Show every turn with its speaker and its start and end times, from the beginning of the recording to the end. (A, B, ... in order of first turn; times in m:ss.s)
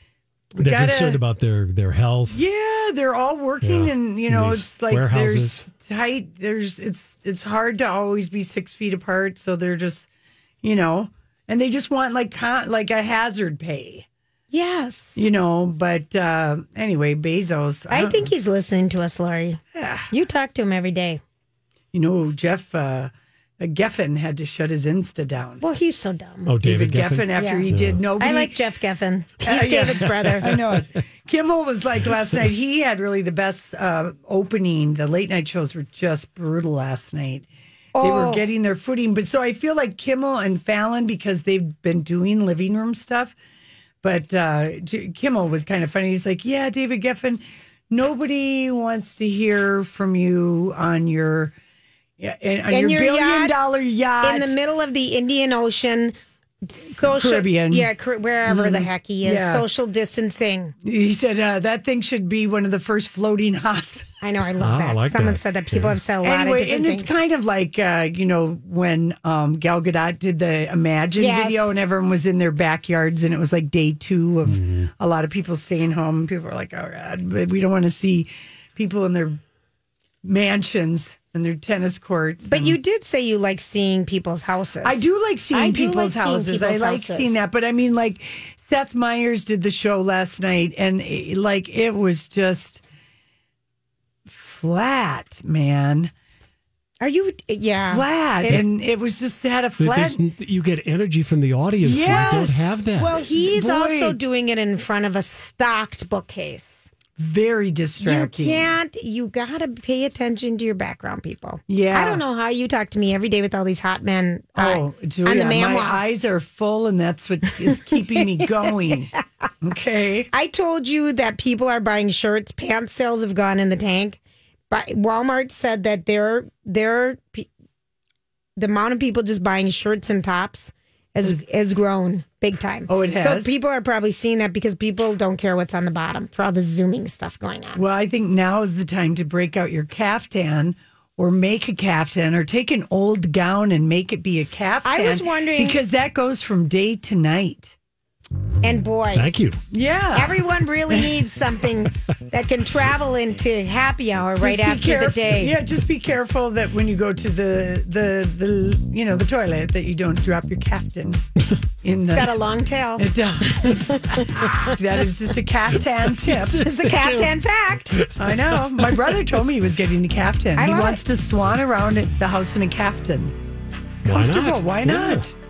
0:00.5-0:01.2 A
0:00.6-0:02.4 B
0:02.3-0:10.1 A
0:03.6-0:05.6 B
0:10.6-0:14.0 A
0:14.5-0:15.2 C
0:15.2-0:18.3 A
0:17.9-0:21.2 C
0:19.7-0:20.1 A
0:21.9-0:25.6 A
0:25.6-0:26.5 C
0:26.4-0:28.0 B
0:26.6-0:28.6 A
0:27.3-0:27.7 C
0:28.2-0:30.5 C
0:29.4-0:37.5 A
0:30.5-0:30.8 B
0:37.9-0:38.4 C
0:38.0-0:43.3 A
0:44.0-0:51.5 A
0:52.2-0:54.6 A
0:52.7-0:53.5 C
0:54.2-0:56.1 C
0:56.7-1:00.7 C
0:56.9-0:57.9 A
0:58.4-0:59.6 A
1:00.8-1:04.1 A
1:04.2-1:07.2 C
1:04.6-1:06.0 B
1:06.2-1:19.4 A
1:11.2-1:11.7 C
1:14.5-1:14.9 B
1:20.2-1:22.8 A
1:22.4-1:27.4 C
1:24.8-1:32.8 A
1:34.2-1:36.1 A
1:37.0-1:38.6 C
1:37.9-1:40.2 A
1:39.8-1:43.2 B
1:41.8-1:42.7 A
1:43.0-1:46.9 C
1:43.3-1:44.2 A
1:47.2-1:48.8 A
1:48.0-1:56.0 C
1:51.7-1:52.2 A
1:54.6-2:00.3 A
1:57.7-1:58.9 C
2:00.3-2:04.2 C
2:04.7-2:07.5 C
2:08.6-2:17.8 C
2:12.9-2:13.5 A
2:17.7-2:27.8 A
2:24.8-2:25.8 C
2:28.6-2:29.3 C
2:29.1-2:29.6 B
2:29.7-2:31.1 A
2:30.1-2:35.5 C
2:34.4-2:41.2 A
2:41.8-2:42.4 A
2:42.1-2:43.1 C
2:43.0-2:46.6 A
2:46.3-2:47.4 B
2:46.6-2:48.0 C
2:48.1-2:53.4 A
2:50.6-2:51.0 C
2:54.0-2:55.2 B
2:54.0-2:55.3 A